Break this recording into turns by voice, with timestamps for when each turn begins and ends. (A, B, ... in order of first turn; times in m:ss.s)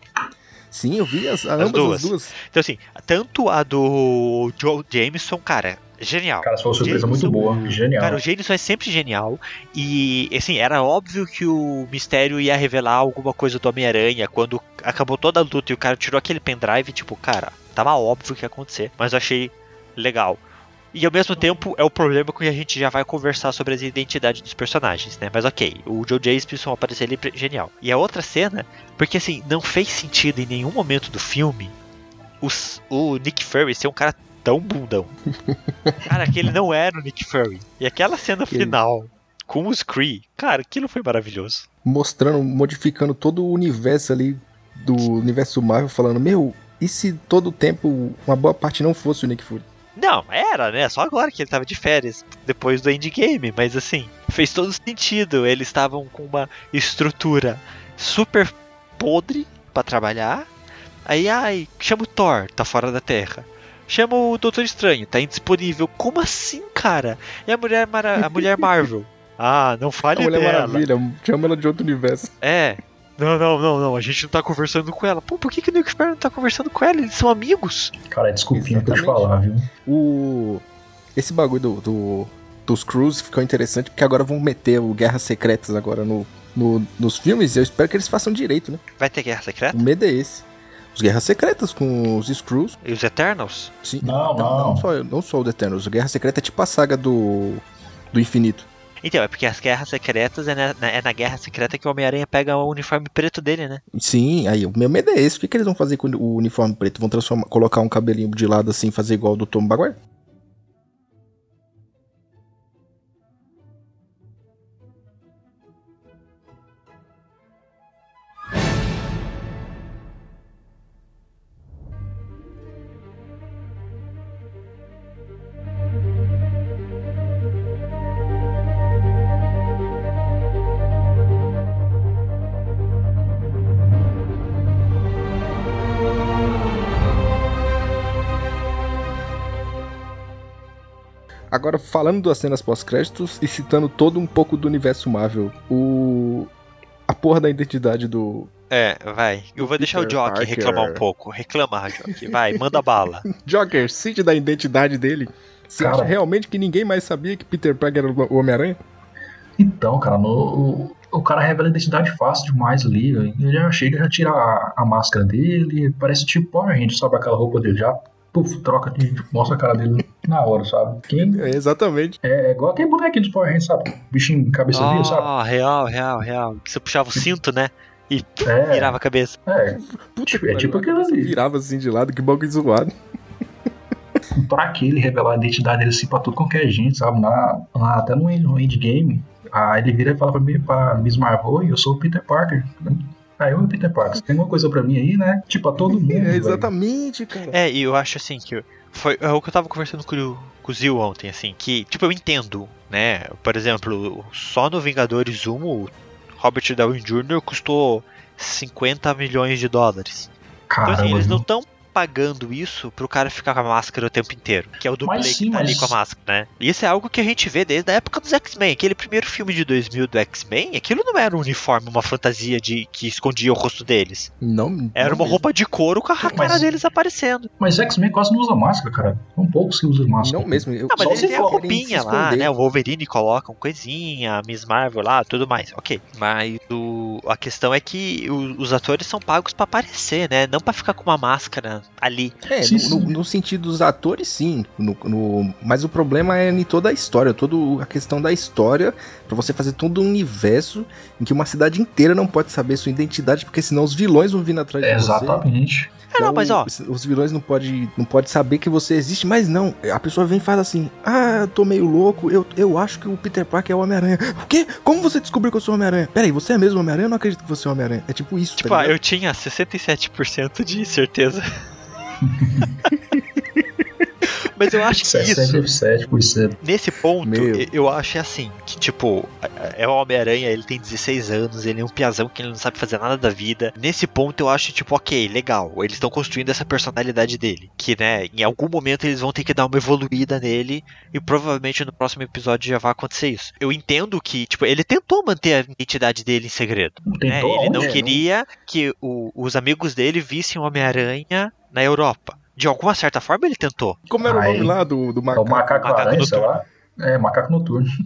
0:00.7-0:02.4 A
0:01.6-0:20.4 B
0:06.4-0:08.2 C
0:07.2-0:07.7 A
0:20.9-0:31.7 B
0:32.4-0:35.1 B
0:35.5-0:36.1 A
0:36.0-0:41.7 B
0:38.5-0:38.8 A
0:41.8-0:49.6 A
0:50.0-1:00.5 B
1:01.1-1:10.9 B
1:08.2-1:08.7 A
1:10.1-1:12.3 A
1:12.4-1:17.9 B
1:18.1-1:19.7 C
1:18.5-1:19.3 A
1:19.9-1:20.6 A
1:21.2-1:28.8 A
1:29.0-1:29.9 B
1:29.7-1:32.8 A
1:32.8-1:33.7 B
1:33.8-1:38.7 A
1:34.0-1:34.9 C
1:39.0-1:43.8 B
1:43.9-1:50.0 A
2:21.5-2:26.5 A
2:27.1-2:28.5 A
2:28.7-2:33.3 B
2:29.6-2:31.0 A
2:32.1-2:38.8 A
2:35.8-2:36.2 C
2:39.6-2:51.5 C
2:51.1-2:52.2 A
2:52.2-2:55.3 C
2:54.7-2:59.4 B
2:58.4-3:01.4 C
2:59.7-3:02.9 A
3:04.3-3:16.7 C
3:15.9-3:17.6 A
3:17.5-3:30.3 B
3:30.7-3:31.4 C
3:30.8-3:44.3 B
3:35.0-3:36.0 C
3:44.4-3:45.4 A
3:45.0-3:47.5 B
3:46.2-3:46.6 A
3:46.3-3:46.7 C
3:47.6-3:51.6 C
3:50.2-3:52.5 A
3:50.9-4:02.4 B
4:02.5-4:15.5 A
4:02.6-4:03.2 C
4:14.8-4:15.9 C
4:16.1-4:16.7 B
4:16.2-4:29.0 A
4:28.6-4:31.5 B
4:32.2-4:32.7 C
4:33.1-4:33.6 A
4:34.5-4:35.6 B
4:35.0-4:36.6 C
4:36.6-5:04.0 B
4:37.2-4:37.7 A
4:57.1-4:58.0 C
4:57.8-4:58.2 A
5:04.1-5:05.8 A
5:04.2-5:04.8 C
5:05.3-5:07.9 C
5:05.8-5:06.6 B